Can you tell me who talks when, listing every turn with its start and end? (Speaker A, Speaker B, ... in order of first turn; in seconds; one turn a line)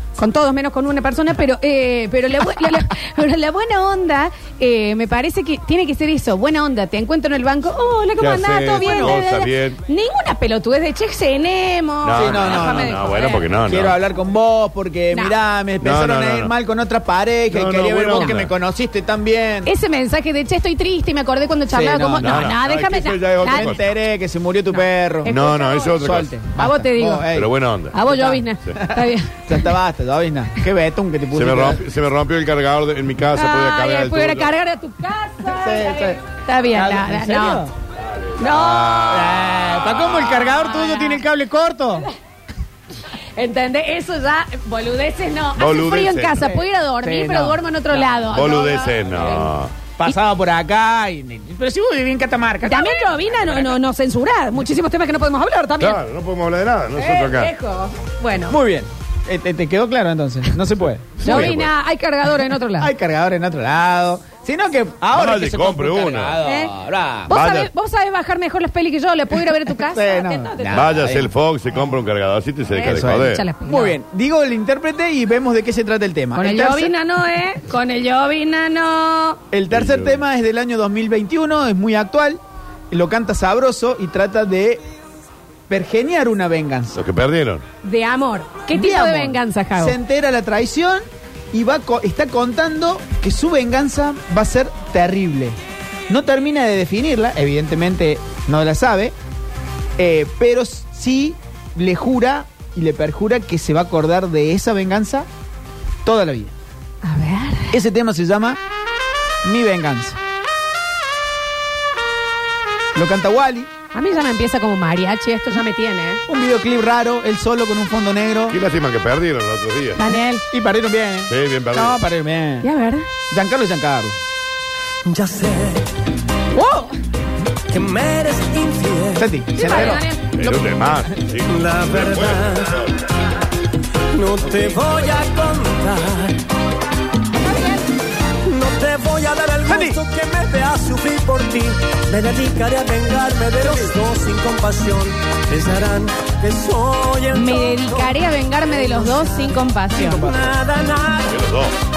Speaker A: 0.2-13.5
Speaker B: 8.2-9.8
Speaker C: 8.8-9.2
Speaker B: 12.0-14.0
Speaker C: 12.2-13.0
Speaker C: 13.6-19.7
Speaker A: 15.1-15.4
Speaker B: 15.8-16.5
Speaker B: 17.5-18.5
Speaker A: 19.6-23.8
Speaker C: 21.7-22.5
Speaker B: 22.2-23.8
Speaker C: 23.4-25.4
Speaker A: 24.7-26.0
Speaker B: 25.3-26.3
Speaker C: 25.9-31.8
Speaker A: 26.5-27.3
Speaker B: 27.3-28.0
Speaker A: 27.9-29.7
Speaker B: 31.3-34.5
Speaker A: 33.3-37.7
Speaker C: 35.5-36.2
Speaker C: 36.7-37.7
Speaker B: 38.0-40.4
Speaker A: 38.4-39.4
Speaker C: 39.0-42.1
Speaker A: 40.3-41.2
Speaker A: 43.4-49.5
Speaker B: 45.6-46.6
Speaker C: 46.5-48.8
Speaker B: 48.3-49.7
Speaker C: 50.0-53.1
Speaker A: 52.6-56.0
Speaker B: 55.8-57.5
Speaker A: 57.0-58.6
Speaker C: 58.5-61.6
Speaker B: 61.2-61.7
Speaker A: 61.2-62.9
Speaker C: 62.8-67.3
Speaker B: 65.1-66.4
Speaker A: 66.4-66.7
Speaker A: 67.3-70.9
Speaker B: 67.3-67.7
Speaker C: 69.8-71.3
Speaker B: 70.7-73.5
Speaker A: 72.7-74.0
Speaker C: 72.8-76.9
Speaker A: 76.4-79.4
Speaker C: 79.5-84.8
Speaker B: 79.7-80.2
Speaker C: 85.7-87.0
Speaker B: 87.0-87.6
Speaker A: 87.8-90.0
Speaker C: 88.7-95.6
Speaker C: 96.1-99.2
Speaker C: 100.0-105.3
Speaker C: 106.0-106.5
Speaker A: 107.0-107.8
Speaker C: 107.7-108.6
Speaker C: 109.4-110.2
Speaker C: 112.9-113.7
Speaker A: 113.9-116.2
Speaker C: 116.3-118.6
Speaker B: 118.5-120.0
Speaker A: 120.0-120.4
Speaker C: 120.5-122.7
Speaker B: 121.3-122.0
Speaker A: 122.6-123.1
Speaker C: 123.3-124.2
Speaker D: 125.0-125.9
Speaker A: 126.5-127.0
Speaker D: 127.7-129.3
Speaker C: 129.2-130.8
Speaker A: 129.6-130.3
Speaker B: 130.3-133.0
Speaker D: 131.4-132.9
Speaker D: 134.1-136.4
Speaker B: 134.4-135.2
Speaker A: 137.5-137.8
Speaker D: 138.4-151.5
Speaker C: 139.7-140.0
Speaker A: 147.3-150.3
Speaker C: 150.0-150.5
Speaker B: 151.3-151.7